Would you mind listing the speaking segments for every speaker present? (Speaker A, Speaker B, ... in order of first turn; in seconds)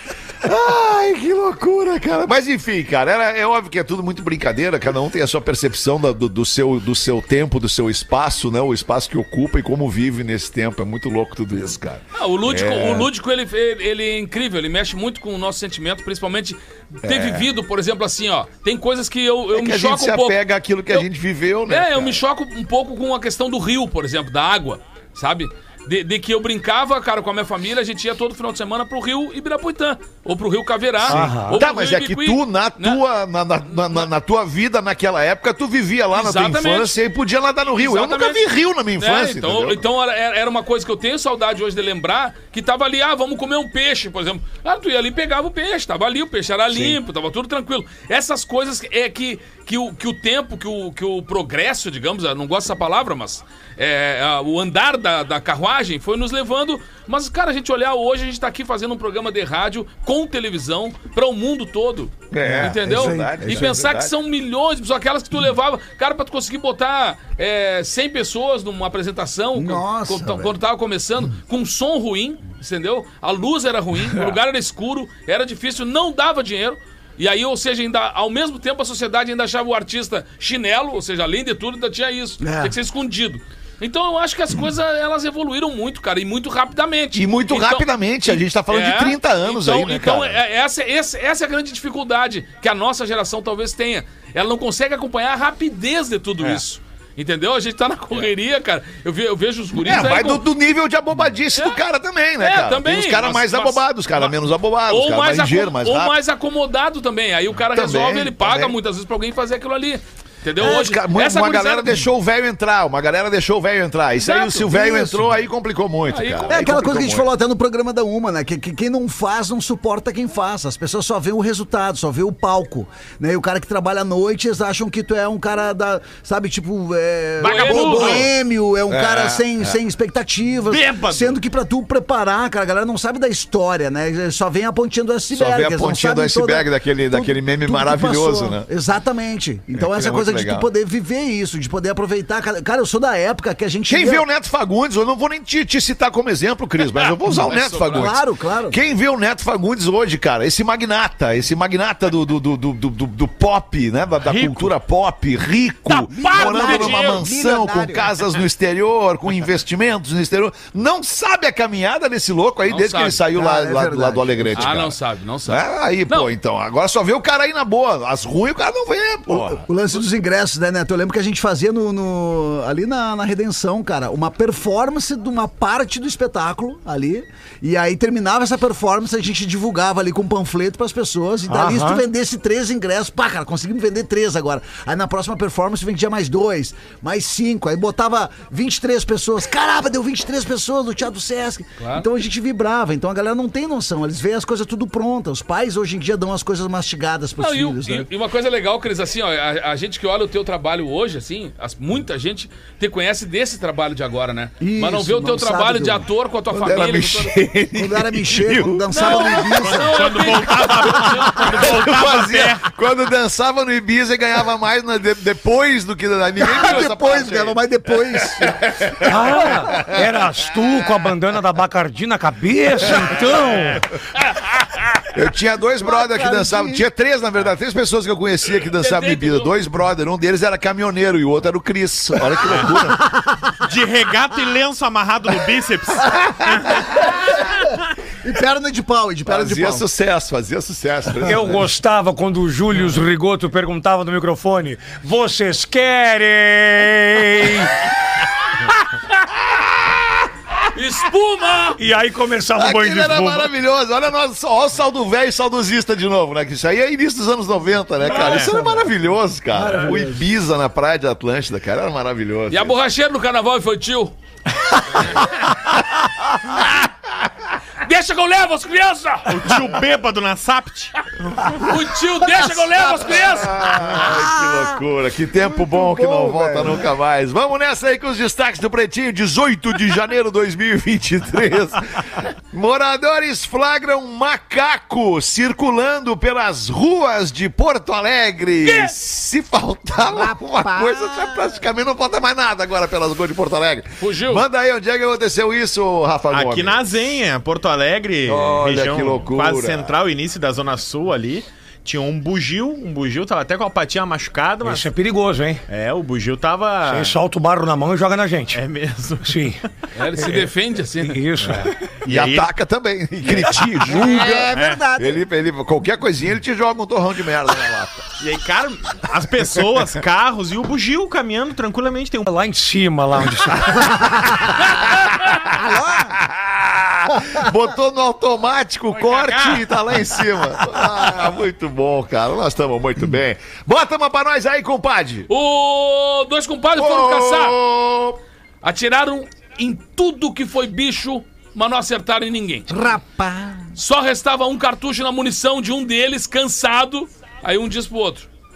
Speaker A: 0.4-13.1, 17.0-17.5, 19.5-22.2, 31.1-39.8, 46.7-47.0, 62.3-64.1, 87.1-90.4, 99.8-106.1, 107.7-108.8, 110.6-117.3, 128.9-129.8, 135.3-138.7, 139.7-140.7, 143.9-169.6, 206.5-209.4, 210.9-220.0, 225.1-233.0, 239.2-241.7, 249.6-250.0, 252.6-262.8, 273.1-296.8, 298.3-299.9, 312.1-318.1, 326.1-335.3, 336.7-338.2
Speaker B: 12.2-20.4, 21.7-33.0, 36.1-37.0, 37.8-100.4, 102.4-112.0, 114.2-114.7, 116.1-116.7, 127.4-128.3, 146.9-148.1, 155.9-157.2, 162.7-163.2, 164.6-166.3, 191.8-192.1, 197.4-207.3, 208.9-211.7, 216.6-216.8, 228.8-229.5, 250.7-251.8, 262.5-264.1, 267.8-269.5, 271.6-273.7, 288.6-288.9, 294.0-294.4, 309.9-311.2, 335.3-337.6, 338.6-342.7, 343.8-348.3
Speaker C: 31.1-31.6, 181.5-182.0, 219.1-223.8, 241.2-247.8, 251.8-253.5, 304.6-305.6, 306.9-308.6, 309.2-309.6, 310.2-311.7, 322.3-323.9
Speaker D: 62.4-63.7, 69.5-70.5, 82.4-82.7, 114.7-115.2, 116.5-144.2, 147.9-148.8, 156.1-158.1, 163.3-164.7, 169.3-198.1, 204.6-206.1, 207.7-210.2, 216.4-218.5, 225.8-226.8, 232.7-233.5, 236.8-237.1, 238.2-239.8, 258.0-258.9, 259.5-260.2, 273.8-274.8, 275.6-276.8, 290.0-291.6, 313.9-315.2, 323.7-324.6, 325.5-326.2, 342.7-343.7
Speaker E: 127.4-128.2, 130.7-131.4, 154.2-154.7, 209.8-212.6, 233.6-236.8, 258.1-258.5, 269.3-270.9, 296.3-304.9, 305.7-307.2, 308.5-309.8, 311.5-312.5, 313.3-313.7, 314.5-314.8, 318.2-322.3, 328.9-329.6